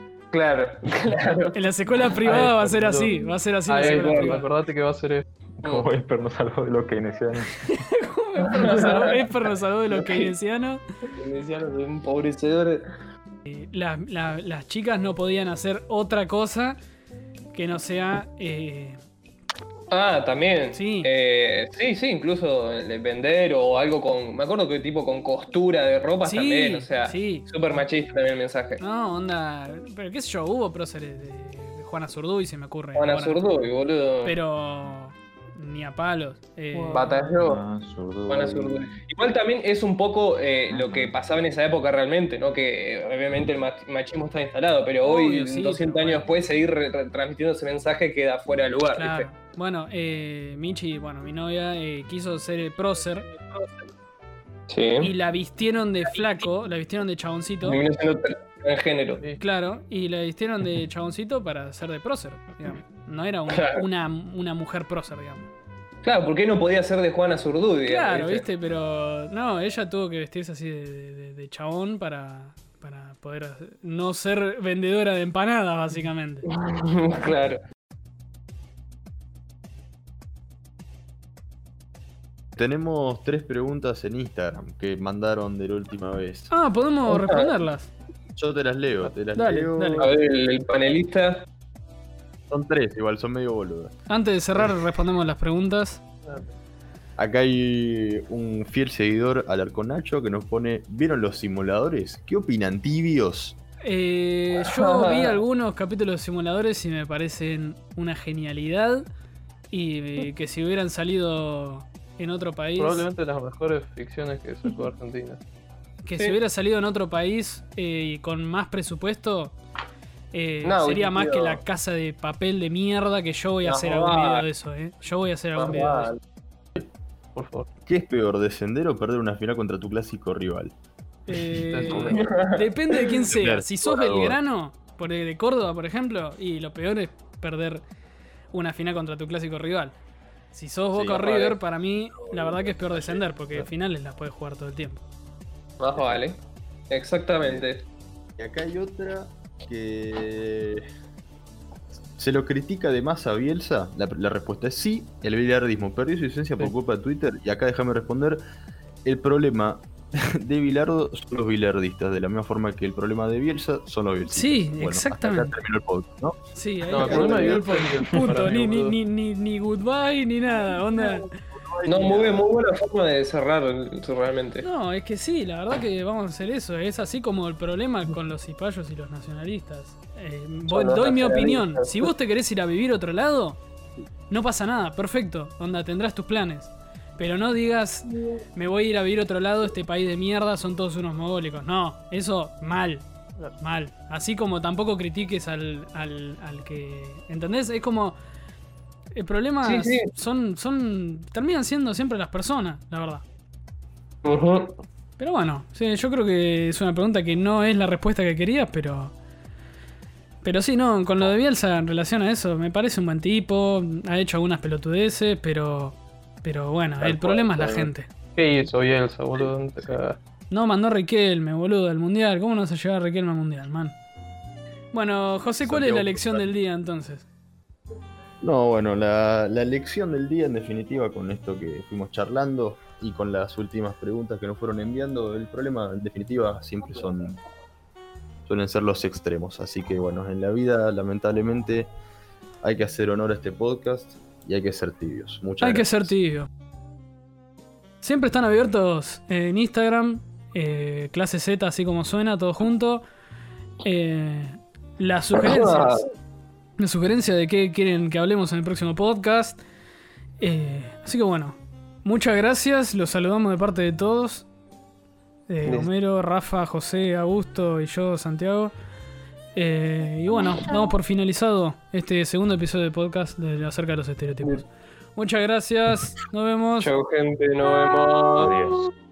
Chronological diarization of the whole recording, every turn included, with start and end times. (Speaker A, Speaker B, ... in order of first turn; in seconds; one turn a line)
Speaker A: 0.3-1.6
Speaker B: 1.5-4.5
Speaker C: 2.2-5.8
Speaker A: 3.8-4.4
Speaker D: 5.6-7.6
Speaker B: 7.6-10.8
Speaker A: 8.4-9.3
Speaker C: 8.8-9.1
Speaker A: 9.9-10.3
Speaker A: 11.2-12.9
Speaker B: 13.5-16.8
Speaker B: 17.5-19.0
Speaker A: 19.9-28.8
Speaker B: 20.7-21.1
Speaker B: 26.2-27.5
Speaker B: 28.8-33.4
Speaker A: 33.0-34.4
Speaker B: 34.2-37.2
Speaker C: 36.8-37.3
Speaker A: 36.9-37.6
Speaker D: 37.4-38.8
Speaker A: 38.3-49.3
Speaker D: 40.7-41.1
Speaker B: 45.0-46.3
Speaker B: 49.0-53.3
Speaker A: 54.7-55.1
Speaker B: 55.0-57.8
Speaker A: 57.6-59.2
Speaker B: 59.4-65.5
Speaker A: 63.5-63.8
Speaker A: 66.0-68.5
Speaker B: 67.9-76.5
Speaker A: 76.5-77.6
Speaker E: 82.6-86.5
Speaker B: 86.5-87.9
Speaker A: 87.1-87.6
Speaker E: 88.3-90.2
Speaker B: 89.4-90.1
Speaker A: 90.0-91.5
Speaker E: 92.5-93.9
Speaker B: 94.1-96.0
Speaker C: 96.2-96.5
Speaker E: 97.2-103.6
Speaker B: 103.8-109.1
Speaker A: 104.6-105.4
Speaker B: 109.7-113.1
Speaker C: 112.8-115.4
Speaker B: 116.0-119.6
Speaker B: 120.3-126.1
Speaker A: 120.6-121.6
Speaker A: 123.6-124.5
Speaker A: 125.6-126.2
Speaker C: 127.3-127.7
Speaker E: 127.9-130.7
Speaker B: 131.3-137.8
Speaker C: 131.5-132.3
Speaker A: 132.1-133.1
Speaker E: 133.3-134.4
Speaker B: 138.5-140.0
Speaker B: 140.5-145.0
Speaker E: 140.9-141.4
Speaker A: 141.2-141.6
Speaker E: 142.2-143.2
Speaker A: 145.8-146.4
Speaker E: 145.9-146.2
Speaker A: 146.9-147.8
Speaker E: 148.4-150.9
Speaker E: 152.2-158.4
Speaker E: 159.1-166.4
Speaker B: 164.3-165.5
Speaker B: 166.6-171.3
Speaker C: 166.9-169.0
Speaker E: 166.9-167.6
Speaker A: 167.0-167.6
Speaker E: 171.0-172.5
Speaker A: 171.9-174.7
Speaker B: 174.6-183.6
Speaker A: 180.7-182.1
Speaker B: 184.3-193.0
Speaker B: 193.6-198.2
Speaker B: 199.2-203.2
Speaker A: 199.6-200.1
Speaker A: 204.2-204.8
Speaker B: 205.2-209.1
Speaker B: 210.4-218.1
Speaker C: 217.0-217.8
Speaker C: 218.4-220.2
Speaker B: 220.5-224.0
Speaker B: 224.9-227.3
Speaker E: 225.6-226.5
Speaker E: 228.4-237.4
Speaker E: 238.4-241.9
Speaker E: 242.6-246.1
Speaker B: 245.6-246.5
Speaker B: 248.0-253.0
Speaker B: 253.8-256.1
Speaker A: 255.4-256.1
Speaker B: 256.8-259.6
Speaker B: 260.4-264.5
Speaker B: 265.5-268.7
Speaker A: 265.7-265.9
Speaker B: 269.6-276.9
Speaker A: 276.8-278.6
Speaker D: 278.4-278.9